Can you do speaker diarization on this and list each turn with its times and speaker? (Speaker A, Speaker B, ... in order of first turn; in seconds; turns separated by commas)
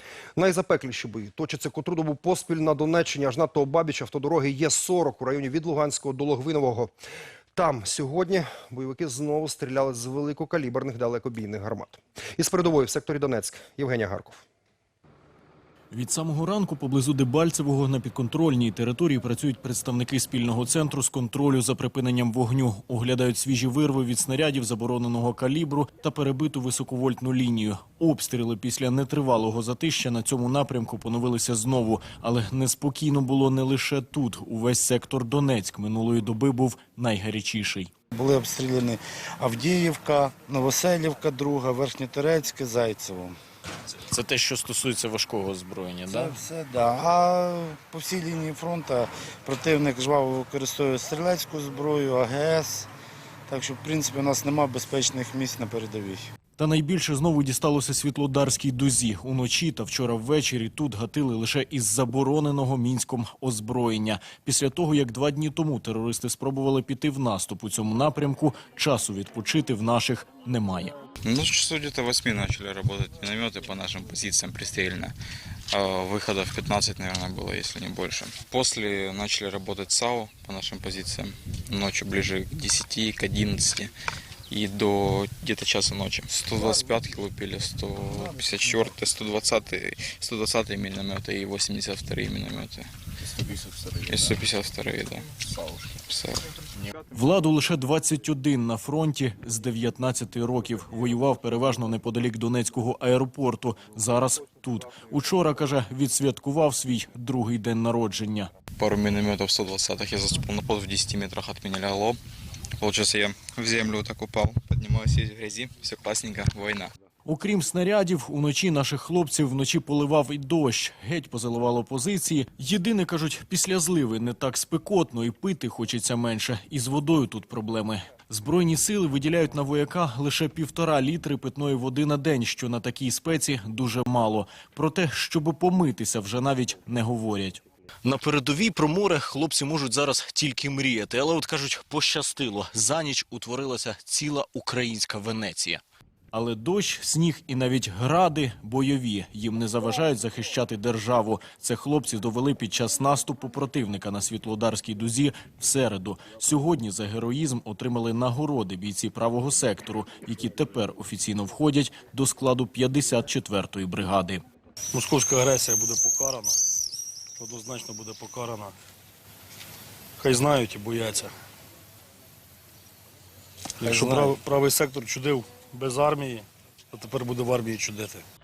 Speaker A: 0.4-6.9, Speaker A: 7.5-14.4, Speaker B: 15.9-37.9, Speaker C: 38.1-43.4, Speaker B: 44.1-46.4, Speaker C: 46.1-52.9, Speaker C: 53.5-56.2, Speaker B: 56.6-70.9, Speaker D: 71.2-75.1, Speaker D: 75.7-83.9, Speaker D: 84.5-92.9, Speaker D: 94.0-96.4, Speaker B: 97.1-108.6, Speaker D: 108.7-112.2, Speaker D: 112.8-116.9, Speaker B: 117.3-145.8, Speaker B: 146.3-164.4, Speaker E: 164.9-166.6, Speaker E: 167.4-168.7, Speaker E: 170.2-171.3, Speaker E: 173.8-178.2, Speaker B: 173.8-174.4